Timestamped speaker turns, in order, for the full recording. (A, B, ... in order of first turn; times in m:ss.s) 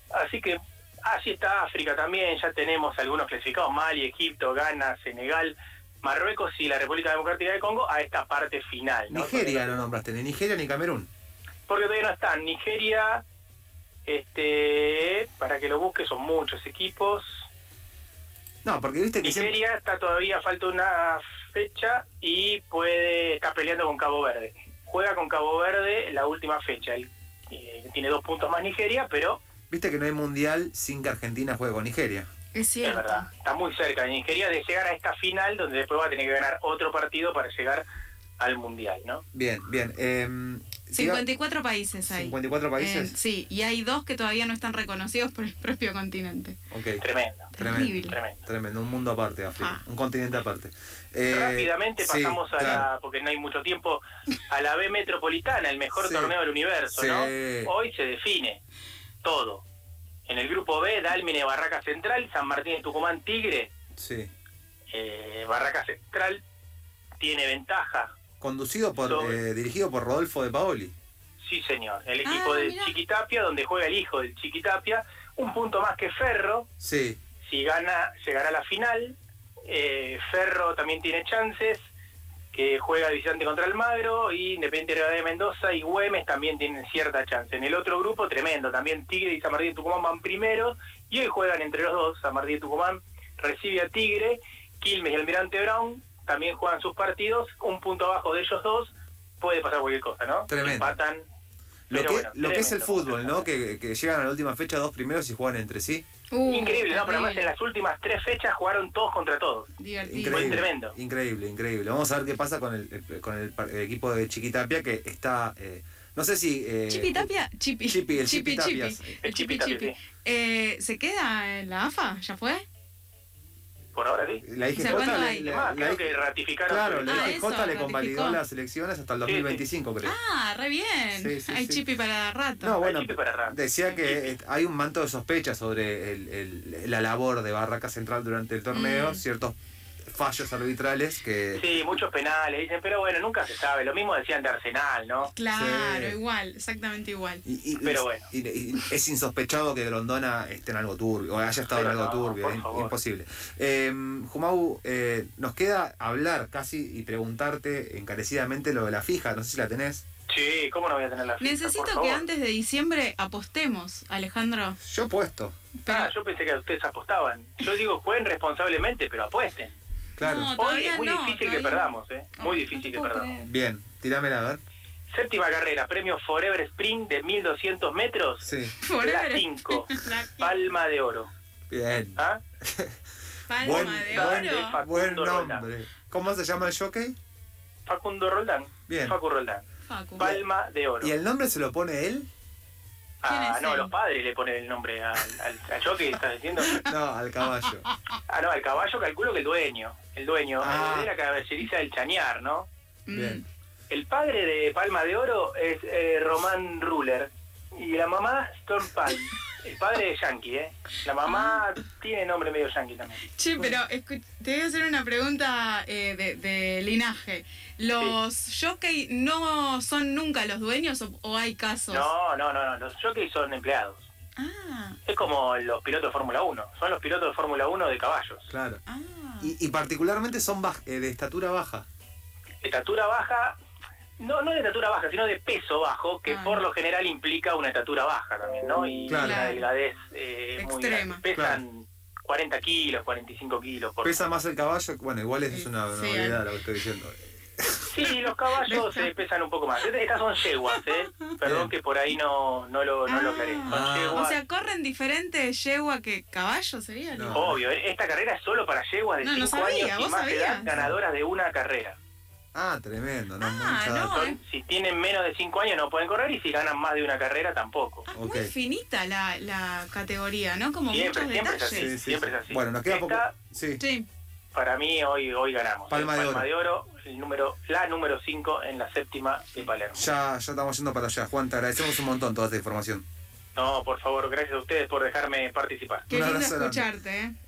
0:00.1-0:09.9 A
0:09.1-0:11.1 B
0:11.7-0:13.2 A
0:14.1-0:17.5 A
0:18.6-0:19.6 B
0:19.2-0:29.4 A
0:29.7-0:32.3 B
0:32.5-0:33.3 C
0:32.8-0:37.8 A
0:38.4-0:39.2 A
0:39.3-0:41.2 B
0:40.9-0:46.6 C
0:42.0-0:43.2 B
0:46.7-0:47.0 B
0:47.0-0:47.5 A
0:47.5-0:48.2 C
0:47.6-0:52.9 B
0:48.1-0:48.4 A
0:51.3-0:58.6 A
0:56.0-0:56.4 B
0:56.9-0:57.7 B
0:59.2-0:59.6 A
1:00.3-1:03.7 A
1:04.0-1:04.3 B
1:04.9-1:06.4 A
1:07.2-1:08.1 A
1:08.4-1:10.9 B
1:09.0-1:09.4 A
1:11.4-1:16.7 A
1:12.2-1:13.0 C
1:16.8-1:17.2 B
1:17.4-1:21.8 A
1:22.5-1:41.3 A
1:40.5-1:41.0 B
1:41.9-1:46.0 B
1:41.9-1:43.5 A
1:46.3-1:47.5 C
1:46.4-1:49.7 A
1:49.8-1:50.6 C
1:50.0-1:57.3 B
1:50.3-1:51.0 A
1:56.9-2:02.6 C
1:57.9-1:59.2 B
1:59.2-2:00.0 A
2:03.9-2:07.4 A
2:04.4-2:10.2 B
2:04.7-2:05.5 C
2:07.1-2:08.4 C
2:09.2-2:09.6 A
2:10.0-2:12.8 C
2:11.1-2:11.8 B
2:12.6-2:21.7 B
2:12.8-2:14.4 A
2:18.7-2:19.2 C
2:21.6-2:25.3 A
2:25.2-2:27.4 C
2:25.5-2:26.2 B
2:27.4-2:40.0 B
2:27.8-2:28.3 A
2:31.7-2:32.9 A
2:40.3-2:42.2 A
2:41.4-2:44.8 C
2:44.8-2:45.5 B
2:45.8-2:46.1 C
2:45.9-2:49.8 A
2:50.2-2:50.5 B
2:50.2-2:53.5 C
2:50.6-2:53.3 A
2:53.4-2:54.6 B
2:55.1-3:01.3 A
2:58.4-2:58.7 B
2:58.8-3:00.7 C
3:01.7-3:03.0 B
3:03.5-3:04.8 C
3:03.6-3:07.2 B
3:03.6-3:05.7 A
3:07.9-3:09.7 A
3:08.9-3:09.2 B
3:09.9-3:10.3 C
3:10.2-3:11.1 A
3:11.0-3:12.3 B
3:13.2-3:16.8 A
3:13.2-3:13.9 C
3:16.6-3:16.9 C
3:16.8-3:17.9 B
3:17.4-3:17.7 C
3:18.3-3:22.7 A
3:20.6-3:21.1 B
3:23.1-3:23.4 C
3:23.1-3:23.4 B
3:23.9-3:33.2 A
3:31.2-3:31.6 C
3:33.2-3:42.1 C
3:41.9-3:44.1 A
3:44.4-3:45.0 C
3:45.1-3:48.5 A
3:48.5-3:48.8 B
3:48.9-3:49.5 C
3:49.4-3:51.9 B
3:52.6-3:53.6 A
3:54.2-4:04.2 A
3:56.3-3:56.6 C
3:59.1-3:59.6 B
3:59.2-3:59.6 C
4:00.6-4:01.2 C
4:01.3-4:01.6 B
4:04.0-4:07.9 B
4:05.5-4:06.4 C
4:07.9-4:14.4 A
4:08.6-4:09.1 C
4:11.4-4:11.7 B
4:13.1-4:17.4 C
4:13.7-4:14.2 B
4:17.1-4:17.6 B
4:17.3-4:22.0 A
4:19.2-4:20.7 C
4:20.7-4:21.0 B
4:22.5-4:24.2 B
4:23.4-4:24.4 C
4:24.1-4:28.1 A
4:28.1-4:32.0 C
4:28.1-4:28.5 B
4:30.9-4:33.3 A
4:31.7-4:33.8 B
4:33.8-4:34.1 C
4:34.5-4:40.1 A
4:35.9-4:36.5 B
4:39.9-4:43.0 B
4:43.6-4:46.1 A
4:46.1-4:46.9 B
4:46.1-4:47.4 C